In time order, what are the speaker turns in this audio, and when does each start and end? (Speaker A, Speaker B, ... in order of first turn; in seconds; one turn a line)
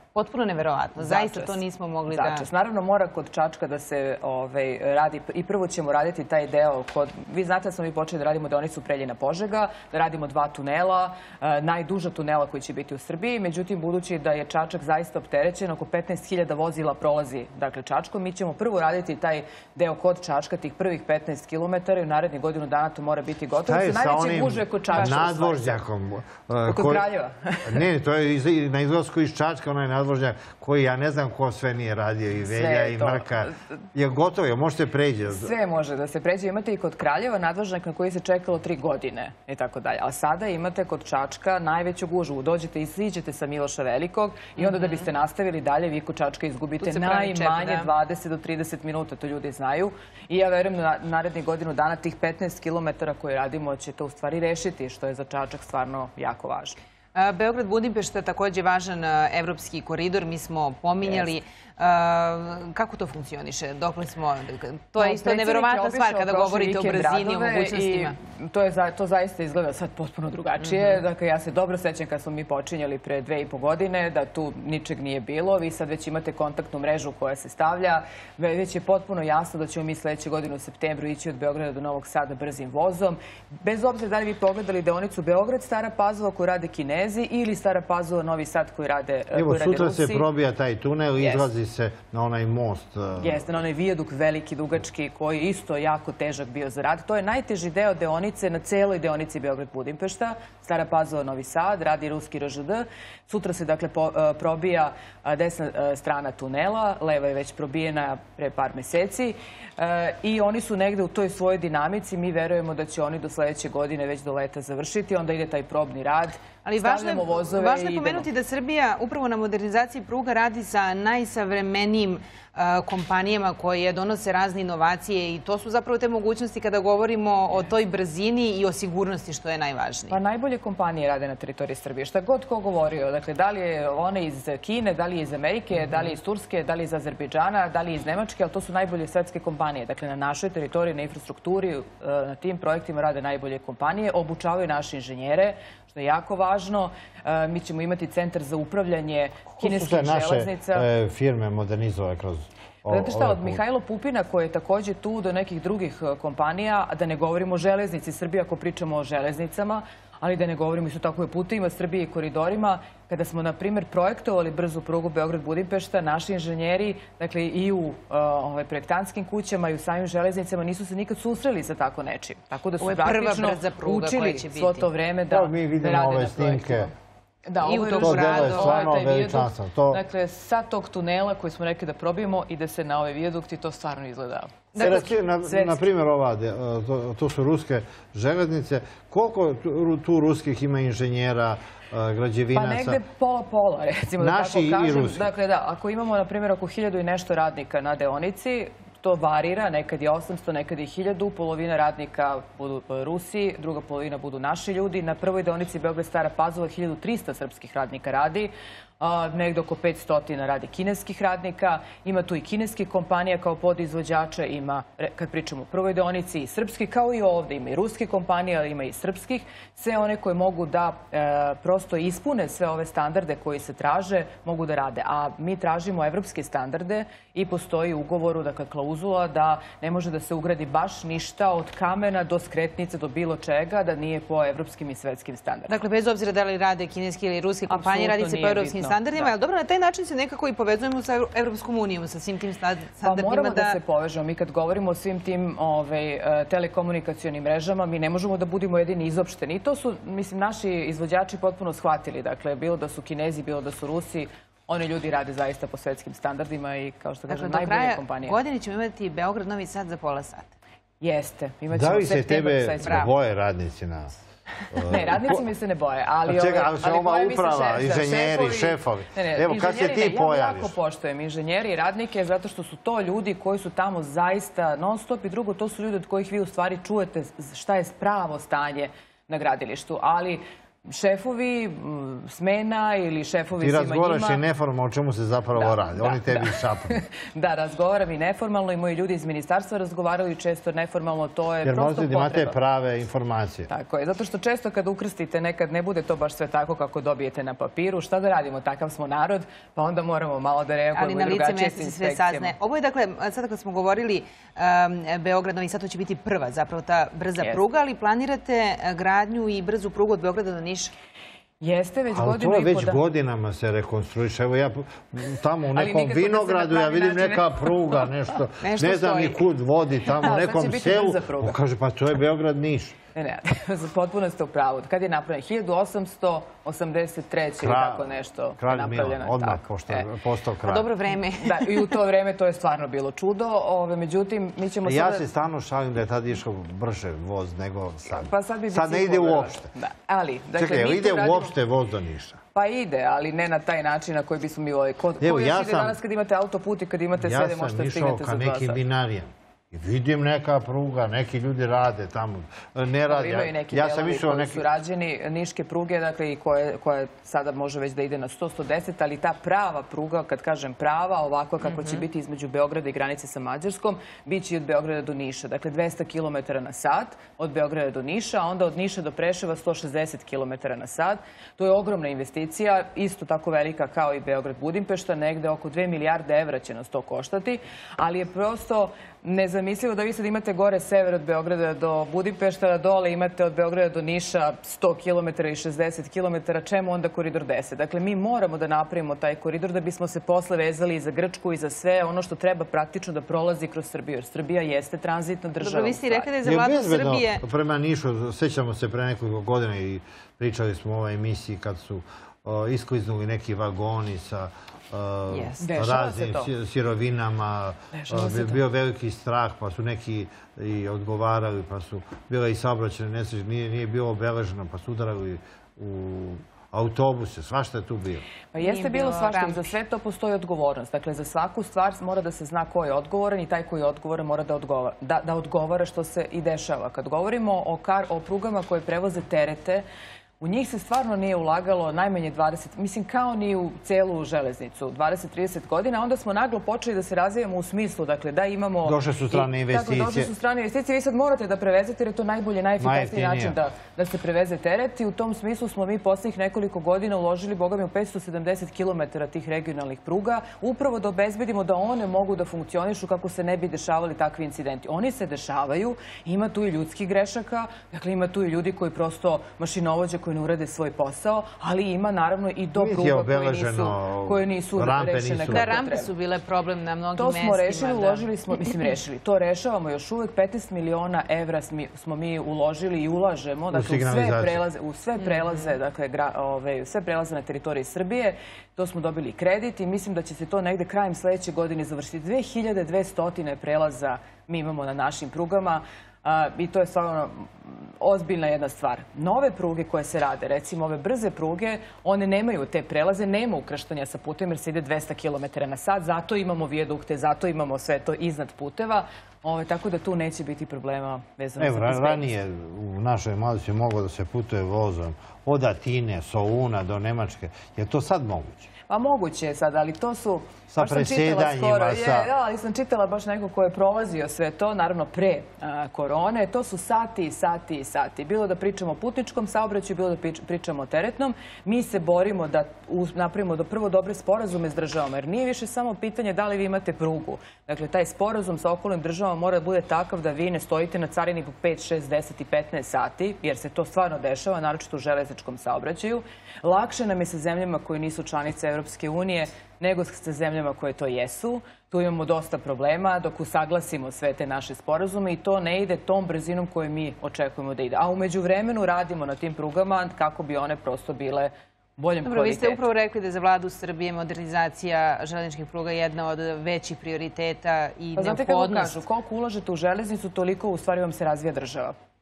Speaker A: 0.1-2.5
Speaker B: 1.0-25.8
Speaker C: 23.6-27.1
Speaker B: 26.7-27.9
Speaker C: 27.6-35.5
Speaker B: 32.4-33.5
Speaker B: 35.3-56.8
Speaker A: 44.6-45.0
Speaker A: 46.8-47.9
Speaker A: 57.1-68.2
Speaker B: 65.0-90.2
Speaker A: 70.7-71.0
Speaker C: 89.3-93.5
Speaker B: 91.2-91.5
Speaker B: 93.2-118.3
Speaker A: 116.6-130.2
Speaker B: 130.1-150.9
Speaker C: 149.5-153.6
Speaker B: 152.9-176.9
Speaker A: 172.8-174.9
Speaker C: 175.3-176.9
Speaker B: 177.4-185.8
Speaker A: 177.6-179.0
Speaker C: 178.0-180.0
Speaker C: 184.8-193.0
Speaker B: 192.5-235.7
Speaker C: 194.2-195.3
Speaker A: 235.7-243.8
Speaker B: 237.7-239.3
Speaker B: 243.0-258.4
Speaker A: 257.3-260.5
Speaker B: 261.0-263.1
Speaker C: 261.7-264.1
Speaker A: 262.8-263.1
Speaker C: 264.7-265.4
Speaker B: 264.9-284.4
Speaker C: 266.2-270.7
Speaker C: 283.6-287.0
Speaker B: 285.5-292.6
Speaker C: 291.6-293.7
Speaker B: 293.7-302.5
Speaker A: 300.9-310.9
Speaker B: 311.6-313.0
Speaker C: 312.1-323.0
Speaker B: 315.7-318.1
Speaker A: 318.6-319.4
Speaker B: 320.1-321.6
Speaker B: 323.1-330.0
Speaker C: 327.6-330.9
Speaker A: 330.6-331.9
Speaker B: 331.4-335.2
Speaker C: 334.8-339.7
Speaker B: 338.1-341.5
Speaker C: 340.6-342.4
Speaker B: 342.5-348.8
Speaker C: 345.2-346.0
Speaker C: 347.2-354.6
Speaker B: 353.1-396.3
Speaker A: 361.6-362.0
Speaker A: 395.6-397.4
Speaker C: 396.4-418.2
Speaker A: 405.3-405.6
Speaker B: 405.6-406.5
Speaker B: 407.9-408.6
Speaker B: 418.5-429.8
Speaker A: 418.6-419.6
Speaker B: 430.4-466.1
Speaker C: 438.8-440.3
Speaker C: 442.8-443.6
Speaker C: 462.8-465.7
Speaker A: 465.5-468.6
Speaker B: 467.1-502.3
Speaker C: 473.7-474.6
Speaker A: 475.4-475.7
Speaker C: 501.6-508.7
Speaker B: 508.9-552.8
Speaker C: 510.7-512.3
Speaker A: 552.2-559.0
Speaker B: 558.2-561.9